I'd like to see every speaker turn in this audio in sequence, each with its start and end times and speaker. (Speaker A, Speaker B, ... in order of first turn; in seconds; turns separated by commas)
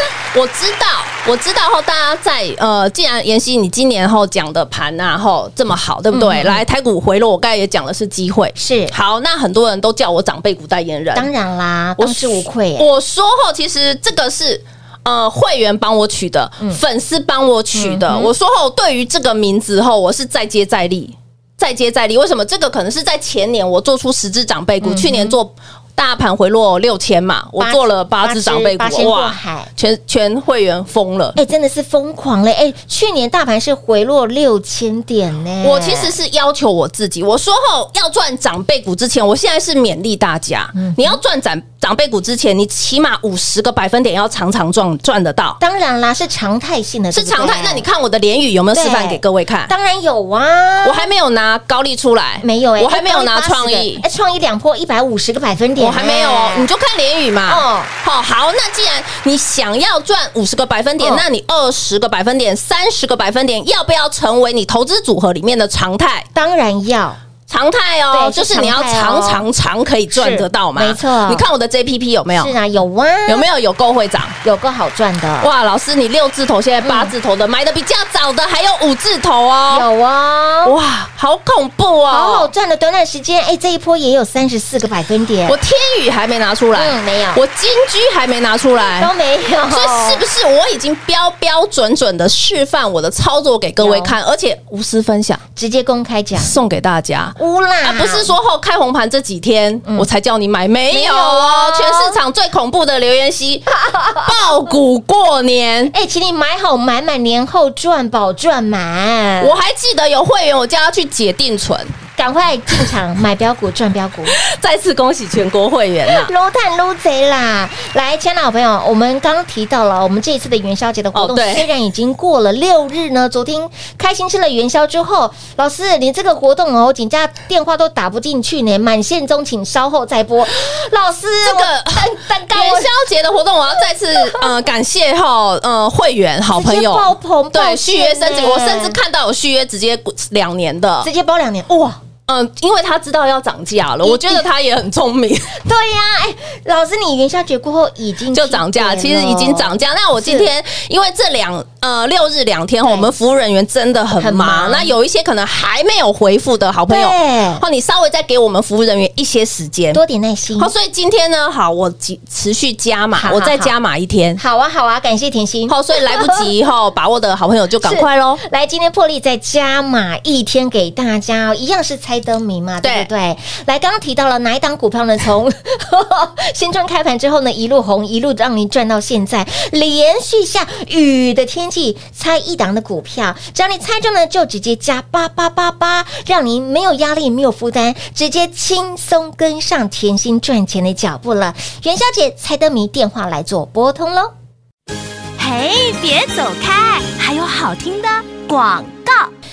Speaker A: 0.3-11.3, Speaker B: 6.1-6.6, Speaker B: 8.6-8.9, Speaker B: 11.1-12.9, Speaker A: 12.0-31.4, Speaker B: 17.7-18.3, Speaker B: 24.8-25.4, Speaker B: 27.6-29.7, Speaker B: 31.4-36.1, Speaker A: 35.6-45.6, Speaker B: 40.8-41.2, Speaker B: 45.6-47.9, Speaker A: 47.1-49.7, Speaker B: 48.7-51.1, Speaker A: 50.8-54.0, Speaker B: 52.4-56.7, Speaker A: 55.8-66.3, Speaker B: 57.5-57.9, Speaker B: 61.0-61.2, Speaker B: 66.3-67.2, Speaker A: 67.5-72.5, Speaker B: 68.1-69.5, Speaker B: 70.1-71.5, Speaker B: 72.3-73.5, Speaker A: 73.3-74.4, Speaker B: 74.4-75.5, Speaker A: 75.4-79.9, Speaker B: 76.8-77.1, Speaker B: 79.7-80.8, Speaker A: 80.6-82.5, Speaker B: 82.1-85.6, Speaker A: 85.5-89.1, Speaker B: 86.8-87.4, Speaker B: 88.8-90.2, Speaker A: 89.7-95.4, Speaker B: 93.8-94.2, Speaker B: 95.6-96.6, Speaker A: 96.4-105.9, Speaker B: 97.4-98.3, Speaker B: 100.9-102.2, Speaker B: 103.7-104.6, Speaker B: 105.9-109.6, Speaker A: 109.4-111.9, Speaker B: 112.2-114.3, Speaker A: 114.3-116.3, Speaker B: 116.1-132.9, Speaker A: 121.1-121.7, Speaker A: 131.4-141.1, Speaker B: 134.2-134.5, Speaker B: 136.5-139.0, Speaker B: 141.0-142.0, Speaker A: 142.3-145.6, Speaker B: 144.0-144.5, Speaker B: 145.6-150.5, Speaker A: 148.3-160.0, Speaker B: 152.8-153.1, Speaker B: 154.2-154.9, Speaker B: 156.9-157.6, Speaker B: 159.9-160.7, Speaker A: 160.6-164.4, Speaker B: 163.2-163.8, Speaker B: 164.4-166.5, Speaker A: 165.7-168.4, Speaker B: 167.8-194.3, Speaker A: 172.8-173.1, Speaker C: 195.4-199.3